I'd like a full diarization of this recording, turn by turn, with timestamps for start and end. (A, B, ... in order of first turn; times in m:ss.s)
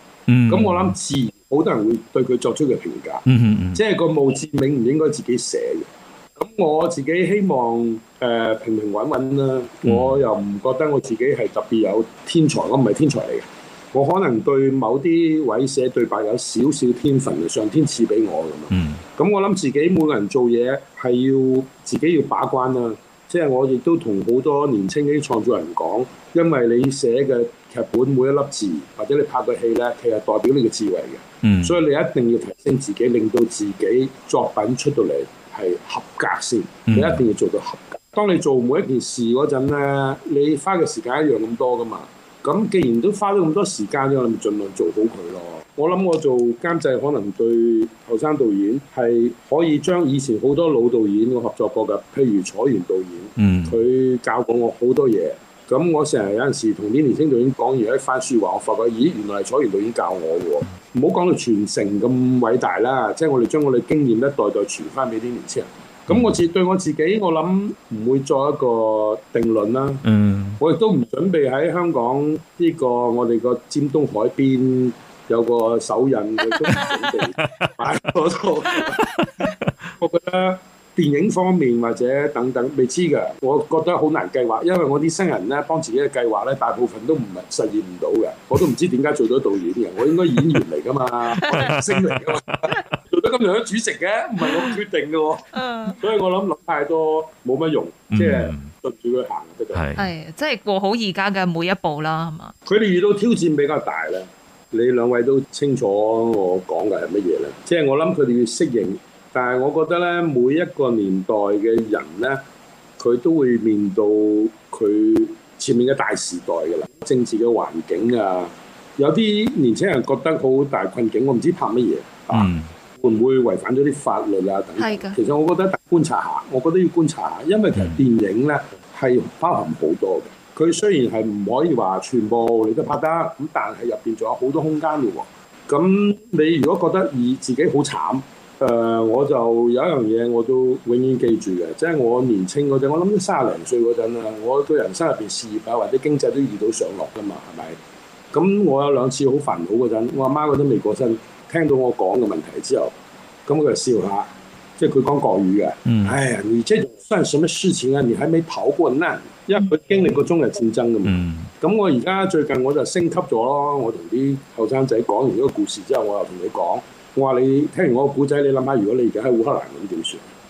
0:00.3-0:01.0 A
0:00.5-1:10.0 B
0:03.3-0:03.8 A
0:09.9-0:10.2 A
0:18.7-0:19.0 A
0:31.4-0:31.8 A
0:36.9-0:37.2 A
0:53.4-0:53.8 A
1:10.0-1:10.6 A
1:10.6-1:39.9 B
1:18.9-1:19.5 A
1:31.4-1:31.7 C
1:31.5-1:32.8 A
1:35.5-1:36.0 C
1:38.1-1:38.7 A
1:39.7-1:40.0 A
1:40.0-1:42.5 C
1:42.7-1:52.4 B
1:53.0-2:27.8 B
2:02.3-2:02.7 A
2:04.8-2:05.2 C
2:28.3-2:32.9 B
2:33.5-2:50.3 B
2:35.9-2:36.2 A
2:41.1-2:41.5 A